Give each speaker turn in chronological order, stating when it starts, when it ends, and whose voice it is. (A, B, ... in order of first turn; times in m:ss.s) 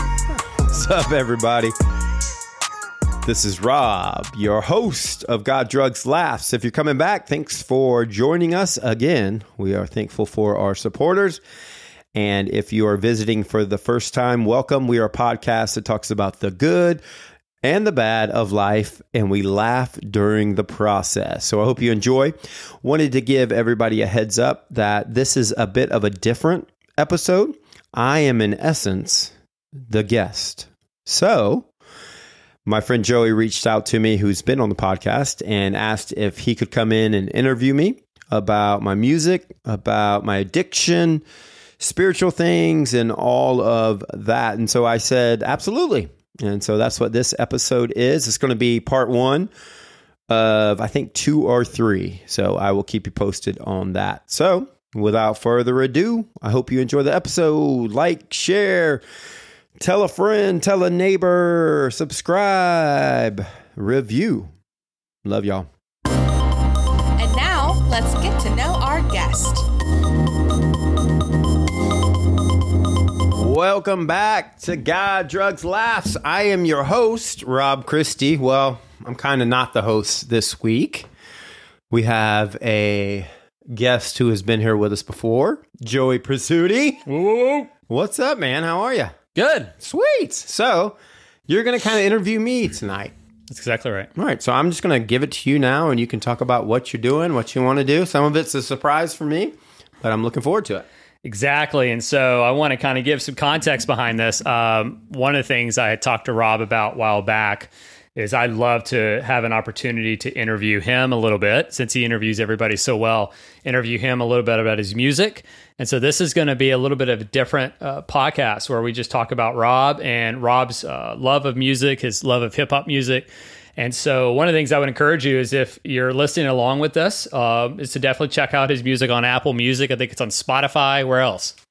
0:00.3-0:01.7 A
0:03.2-0:11.4 A
0:12.1-0:17.0 A
0:17.6-0:29.3 A
0:29.8-0:31.7 A
0:32.6-0:41.2 A
0:41.8-0:49.5 A
0:50.3-0:59.0 A
0:59.8-1:04.5 A
1:05.2-1:05.7 A
1:07.2-1:09.7 B
1:13.3-1:21.1 A
1:21.9-1:27.0 A
1:27.1-1:27.7 C
1:27.9-1:29.1 A
1:29.4-1:29.7 C
1:29.8-1:33.1 A
1:33.5-1:34.1 C
1:34.1-1:40.8 A
1:41.2-2:11.5 C